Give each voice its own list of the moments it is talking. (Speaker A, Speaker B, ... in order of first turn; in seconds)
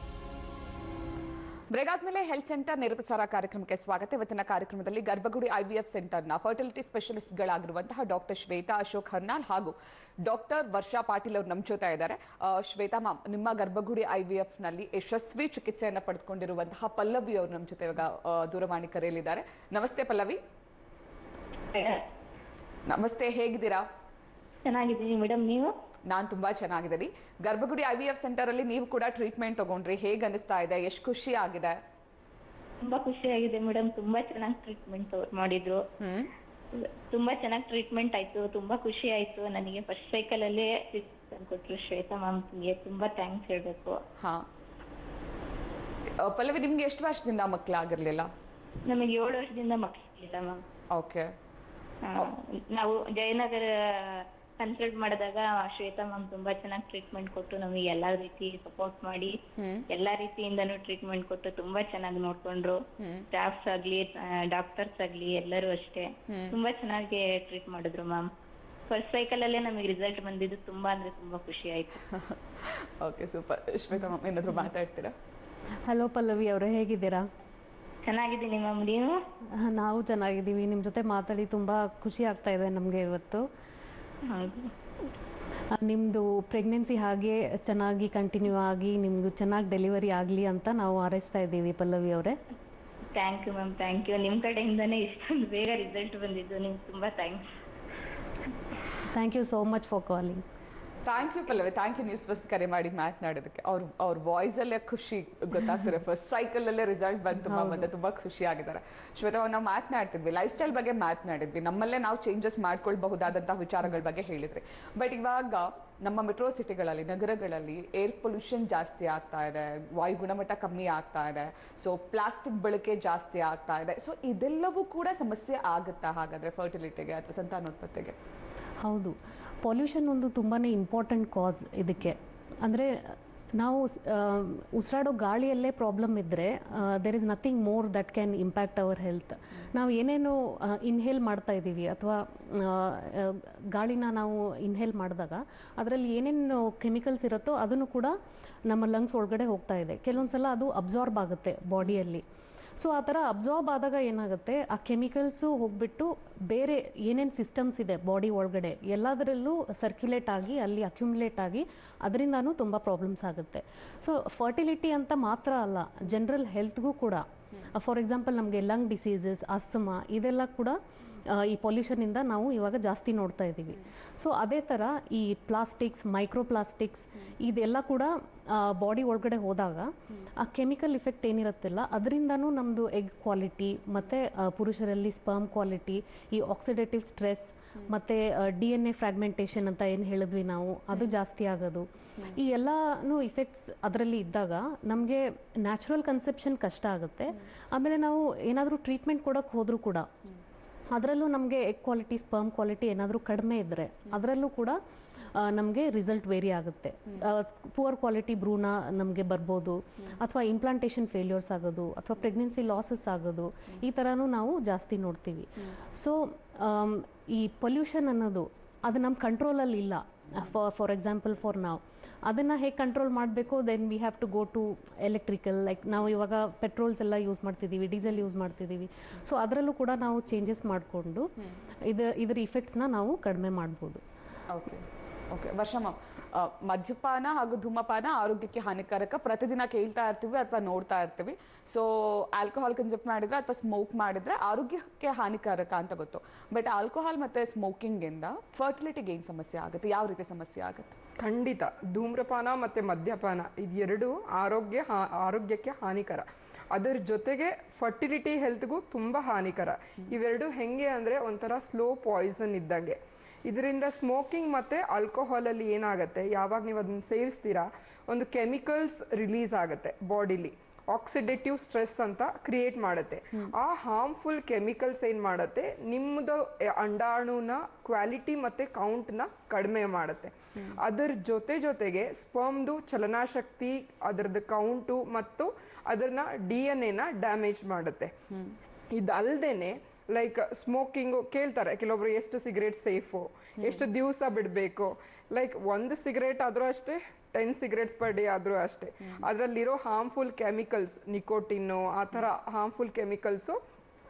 Speaker A: 1.7-20.4, 22.9-23.9, 26.1-31.8, 36.0-36.3, 44.2-44.5, 46.2-48.3, 50.9-51.3, 59.6-59.8, 63.0-63.3, 66.3-66.6, 72.1-75.1, 101.0-128.1, 234.5-250.9, 293.6-293.8
Speaker B: 21.7-22.0, 24.6-25.7, 32.8-35.8, 36.7-44.0, 48.9-50.6, 52.0-68.3, 68.9-72.0, 78.1-79.1, 84.2-84.7, 93.1-97.4
Speaker C: 75.9-77.3, 79.5-83.4, 85.7-92.4, 99.1-100.4, 107.5-107.9, 128.8-148.2, 148.7-152.2, 152.8-200.1, 200.9-204.8, 205.3-231.3, 231.9-234.0
Speaker D: 251.2-288.1, 288.9-303.6